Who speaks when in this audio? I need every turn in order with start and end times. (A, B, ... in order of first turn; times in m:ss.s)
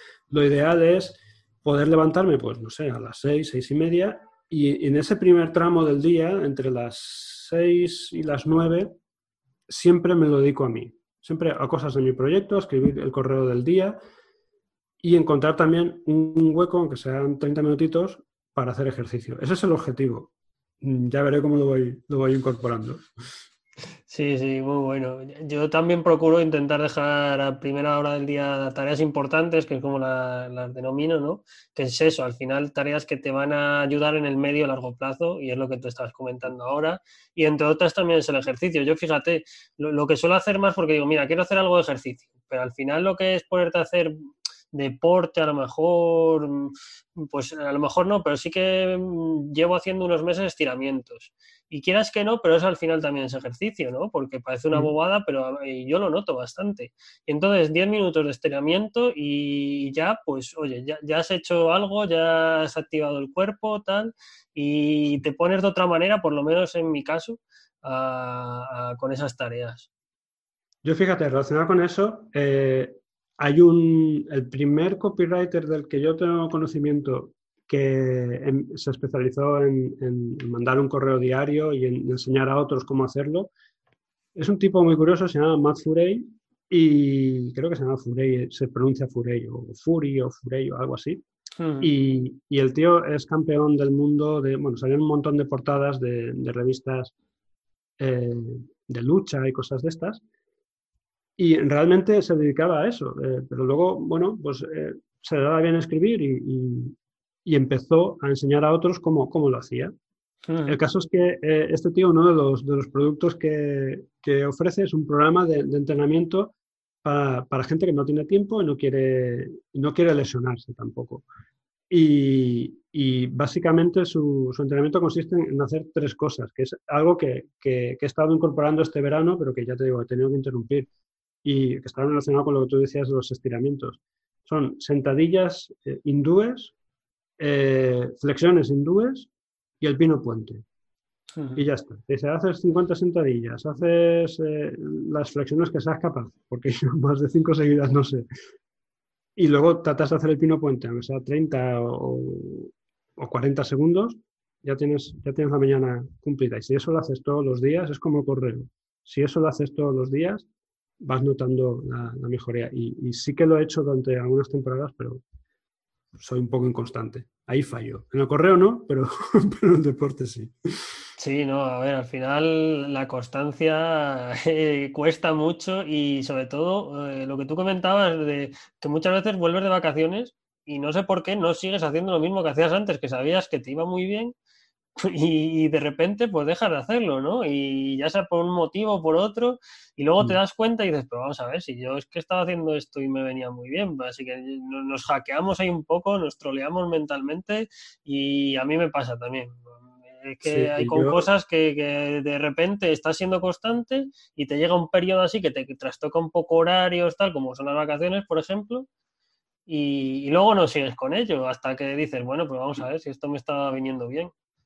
0:00.3-0:08.9 A
0:09.7-0:14.0 A
0:15.0-0:23.0 A
0:24.1-0:44.2 B
0:44.7-1:09.9 B
1:10.8-1:23.5 A
1:24.4-1:31.2 A
1:31.6-1:31.9 B
1:31.8-1:37.1 A
1:38.0-1:40.2 A
1:41.4-1:49.9 A
1:50.5-1:50.8 B
1:50.7-2:01.2 A
2:01.9-2:10.9 A
2:11.4-2:16.7 A
2:17.4-2:19.3 A
2:19.8-2:20.6 A
2:21.4-2:21.7 B
2:21.6-2:28.2 A
2:29.4-2:40.5 A
2:41.0-2:45.2 A
2:46.2-2:51.0 A
2:51.2-3:04.3 B
3:05.0-3:19.7 B
3:20.2-3:28.9 B
3:20.4-3:21.3 A
3:29.7-3:34.3 B